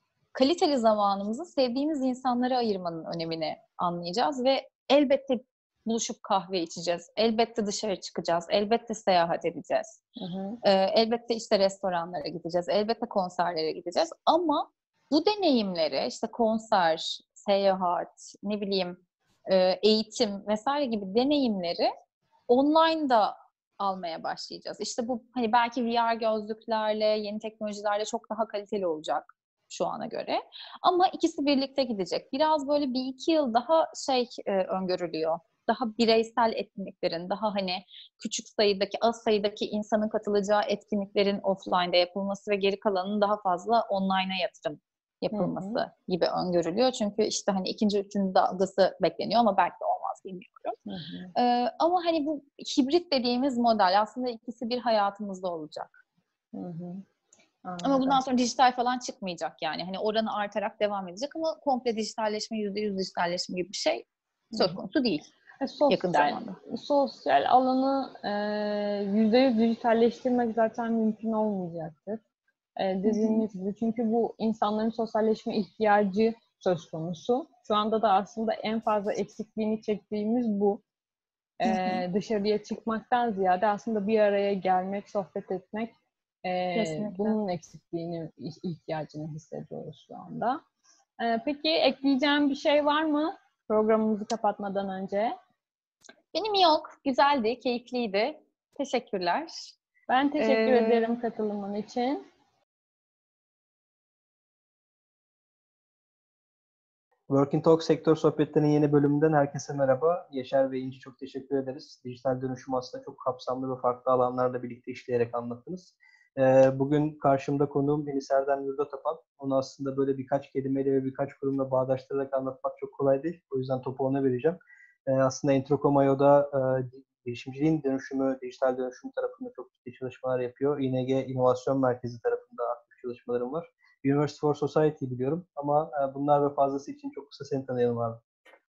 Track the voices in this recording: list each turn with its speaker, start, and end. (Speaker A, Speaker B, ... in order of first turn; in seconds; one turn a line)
Speaker A: 0.3-10.0
Speaker B: 10.2-10.6
Speaker A: 10.6-21.9
Speaker A: 22.5-50.8
Speaker B: 45.3-45.8
Speaker B: 50.9-51.3
Speaker A: 51.4-56.0
Speaker B: 56.5-57.0
Speaker B: 57.6-58.2
Speaker A: 57.8-65.3
Speaker B: 64.5-64.8
Speaker B: 65.6-72.2
Speaker A: 65.9-66.6
Speaker B: 72.8-80.8
Speaker A: 73.1-73.4
Speaker B: 81.6-90.6
Speaker A: 81.7-82.0
Speaker A: 86.7-87.4
Speaker B: 91.2-95.3
Speaker A: 96.3-99.7
Speaker B: 100.1-102.2
Speaker A: 100.4-101.2
Speaker C: 107.3-138.2